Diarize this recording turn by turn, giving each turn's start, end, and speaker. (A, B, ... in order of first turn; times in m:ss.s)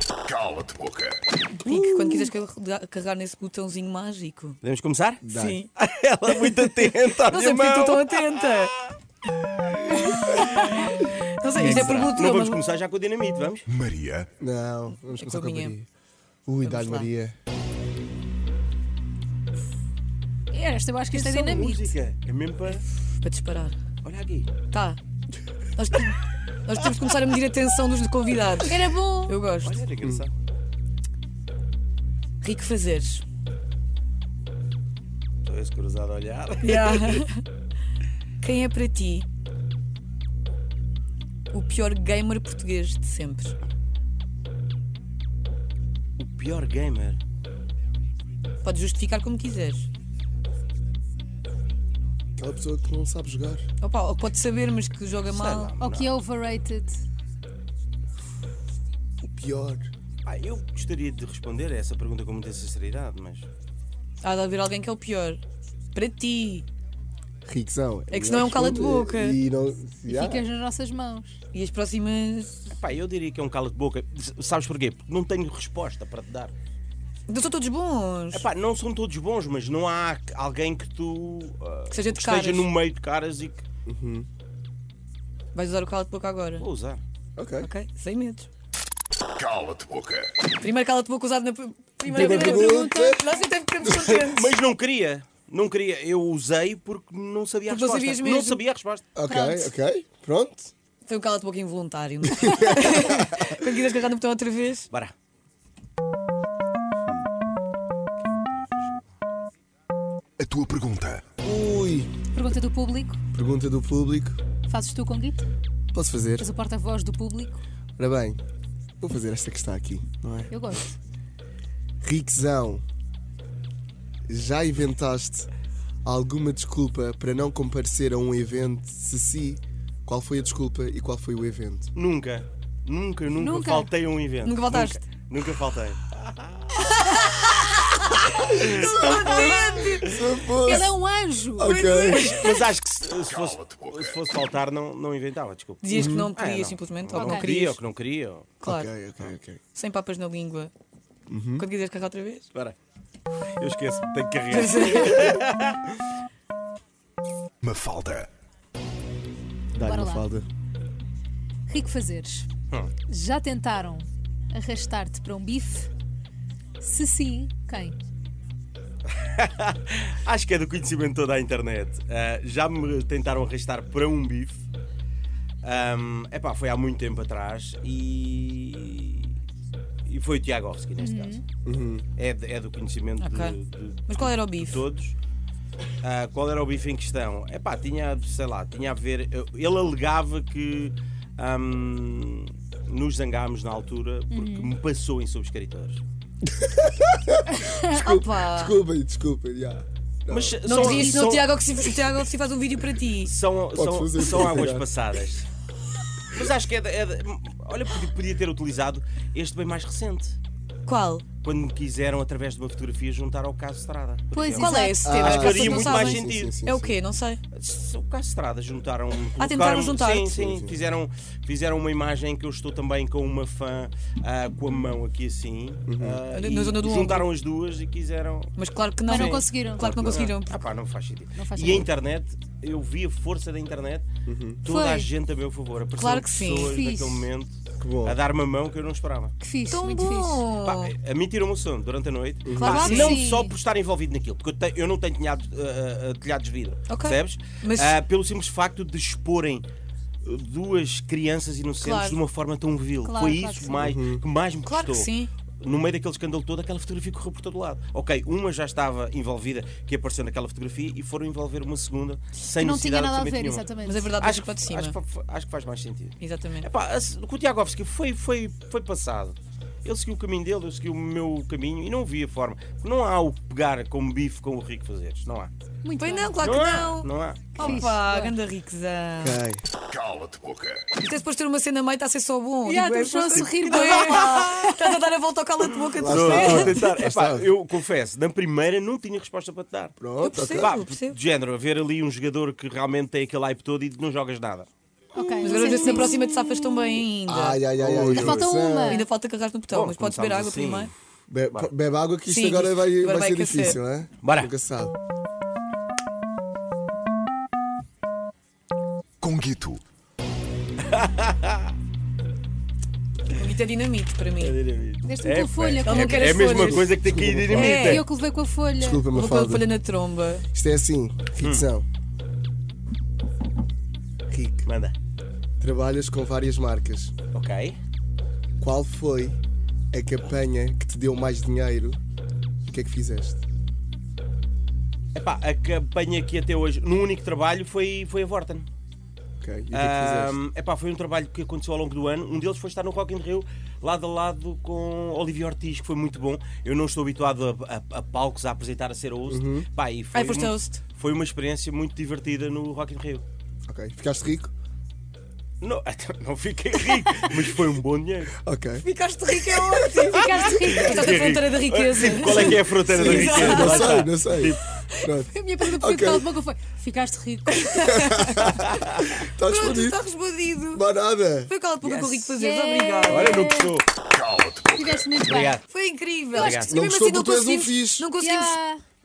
0:00.3-0:01.1 A
0:01.6-0:04.6 B
0:01.6-0:02.3 C
0:04.6-0:05.2 D
0:05.2-0:05.6 C
0:05.2-0:05.7 B
0:05.8-0:08.5 D
0:06.5-0:08.8 B
0:10.0-0:12.6 B
0:11.5-0:13.7 D
0:11.7-0:12.0 C
0:13.7-0:14.3 A
0:14.4-0:15.9 C
0:14.9-0:15.8 B
0:16.4-0:17.4 C
0:16.6-0:17.1 B
0:20.5-0:21.9 E
0:21.1-0:22.8 D
0:23.2-0:23.8 B
0:24.0-0:24.5 D
0:24.7-0:25.0 B
0:25.8-0:29.8 B
0:28.6-0:29.4 E
0:29.6-0:30.3 D
0:32.4-0:33.2 B
0:35.4-0:37.2 D
0:36.6-0:37.4 B
0:38.4-0:39.3 B
0:41.5-0:43.6 B
0:46.2-0:47.2 D
0:48.6-0:49.8 B
0:52.4-0:53.6 C
0:53.8-0:55.7 B
0:55.2-0:56.1 D
0:55.8-0:57.0 E
0:59.2-0:59.9 C
1:00.2-1:03.4 D
1:04.2-1:05.4 B
1:05.9-1:06.6 B
1:07.4-1:10.4 C
1:08.1-1:09.4 B
1:10.1-1:11.4 E
1:11.5-1:12.7 B
1:12.7-1:16.5 D
1:17.3-1:18.4 B
1:18.3-1:23.6 D
1:21.9-1:22.7 B
1:23.8-1:24.3 C
1:25.5-1:26.6 B
1:26.6-1:27.0 D
1:27.4-1:27.7 C
1:27.6-1:28.5 B
1:29.4-1:30.3 A
1:30.6-1:34.5 B
1:32.1-1:33.3 C
1:32.1-1:33.2 E
1:33.9-1:39.0 D
1:37.7-1:38.6 B
1:39.1-1:40.7 C
1:39.2-1:39.7 E
1:41.0-1:44.9 B
1:42.3-1:43.5 C
1:48.3-1:49.0 D
1:50.4-1:51.2 A
1:51.4-1:52.1 C
1:52.3-1:53.2 E
1:53.3-1:54.4 C
1:54.7-1:55.5 E
1:55.9-1:56.5 C
1:56.4-1:57.6 E
1:58.0-1:58.4 C
1:59.0-2:00.5 C
2:00.5-2:00.9 E
2:02.0-2:02.8 C
2:04.3-2:05.5 C
2:06.0-2:11.9 C
2:11.9-2:20.1 D
2:13.3-2:13.9 E
2:14.4-2:15.0 B
2:16.8-2:17.7 B
2:18.5-2:20.7 B
2:18.6-2:21.0 C
2:20.6-2:22.3 E
2:21.6-2:22.4 C
2:21.6-2:22.6 B
2:22.2-2:28.5 D
2:25.8-2:27.8 B
2:25.9-2:26.3 C
2:27.2-2:27.5 E
2:28.6-2:28.9 B
2:28.6-2:29.6 C
2:29.7-2:30.7 B
2:31.3-2:31.6 C
2:31.6-2:32.5 B
2:33.6-2:35.9 D
2:34.5-2:35.4 B
2:37.6-2:38.3 A
2:39.7-2:40.4 C
2:39.8-2:40.2 E
2:41.7-2:42.5 E
2:43.1-2:45.9 E
2:46.8-2:48.0 E
2:49.1-2:54.6 D
2:55.6-2:59.3 D
3:00.0-3:01.4 D
3:01.0-3:01.4 E
3:01.6-3:02.0 C
3:02.2-3:05.2 D
3:03.2-3:04.8 B
3:06.0-3:16.0 D
3:14.3-3:14.7 E
3:16.4-3:20.9 C
3:17.5-3:17.9 E
3:17.9-3:18.8 B
3:20.3-3:21.5 D
3:20.6-3:23.3 B
3:20.8-3:21.3 E
3:23.2-3:25.5 D
3:23.7-3:24.9 C
3:26.3-3:30.4 D
3:30.8-3:31.2 B
3:31.4-3:36.6 D
3:34.3-3:35.6 E
3:34.5-3:37.4 B
3:35.0-3:37.0 C
3:37.5-3:48.5 D
3:39.4-3:40.4 B
3:40.4-3:40.8 C
3:45.9-3:46.2 C
3:46.3-3:47.3 B
3:48.6-3:50.6 B
3:49.1-3:50.0 E
3:49.1-3:54.1 D
3:49.8-3:50.2 C
3:51.4-3:51.9 E
3:54.2-3:54.6 C
3:54.6-3:59.3 D
3:54.6-3:55.1 E
3:55.9-3:56.8 B
3:56.7-3:57.3 E
3:57.8-3:58.2 C
3:59.4-4:00.4 E
3:59.7-4:00.9 B
4:00.6-4:09.6 D
4:02.4-4:03.1 C
4:02.5-4:03.3 B
4:02.6-4:03.6 E
4:06.9-4:08.0 B
4:10.2-4:23.7 D
4:11.8-4:12.2 B
4:13.0-4:13.8 E
4:13.8-4:14.2 C
4:14.6-4:15.3 B
4:22.5-4:24.2 E
4:23.8-4:25.0 B
4:24.2-4:35.5 D
4:26.2-4:26.7 B
4:35.8-4:36.3 E
4:36.0-4:39.4 B
4:36.4-4:37.9 D
4:37.6-4:38.3 E
4:39.2-4:39.6 C
4:39.9-4:40.8 A
4:41.0-4:46.8 B
4:42.6-4:44.7 E
4:46.0-4:47.5 C
4:46.0-4:49.9 D
4:50.0-4:50.7 C
4:50.2-4:51.2 B
4:50.5-4:54.7 D
4:55.1-4:56.3 E
4:55.4-4:57.6 B
4:57.2-4:59.0 C
4:57.8-4:58.4 D
4:58.1-4:59.0 E
4:58.7-5:00.9 B
4:59.7-5:00.9 D
5:01.3-5:04.9 C
5:02.2-5:03.8 B
5:04.2-5:04.5 D
5:09.2-5:09.8 A
5:10.8-5:11.7 D
5:13.3-5:14.5 B
5:14.4-5:18.0 D
5:15.0-5:16.5 E
5:15.8-5:16.9 B
5:16.5-5:18.0 C
5:17.5-5:18.1 B
5:17.8-5:19.1 E
5:18.8-5:19.7 C
5:19.1-5:20.4 B
5:20.5-5:21.9 C
5:21.4-5:21.7 D
5:24.3-5:24.7 C
5:24.6-5:24.9 D
5:25.6-5:27.1 C
5:27.3-5:27.8 D
5:28.6-5:29.4 C
5:29.9-5:32.0 C
5:32.6-5:33.4 C
5:35.1-5:38.7 D
5:39.4-5:40.4 C
5:39.7-5:53.2 D
5:49.3-5:49.7 C
5:50.1-5:50.8 B
5:53.6-5:54.5 C
5:55.6-5:58.3 D
5:58.4-5:58.8 C
5:58.8-6:04.0 B
5:59.5-6:00.0 C
6:00.1-6:01.3 E
6:00.1-6:04.6 D
6:02.3-6:06.3 C
6:05.3-6:08.1 E
6:07.5-6:08.6 B
6:07.8-6:10.0 C
6:08.4-6:09.2 D
6:09.2-6:10.8 B
6:10.7-6:11.5 C
6:11.4-6:13.5 B
6:11.8-6:12.3 D
6:12.4-6:13.8 E
6:13.1-6:13.8 D
6:14.1-6:14.5 A
6:14.5-6:15.6 E
6:15.2-6:15.6 D
6:15.6-6:18.6 B
6:16.3-6:16.7 D
6:16.4-6:18.1 C
6:18.1-6:18.8 E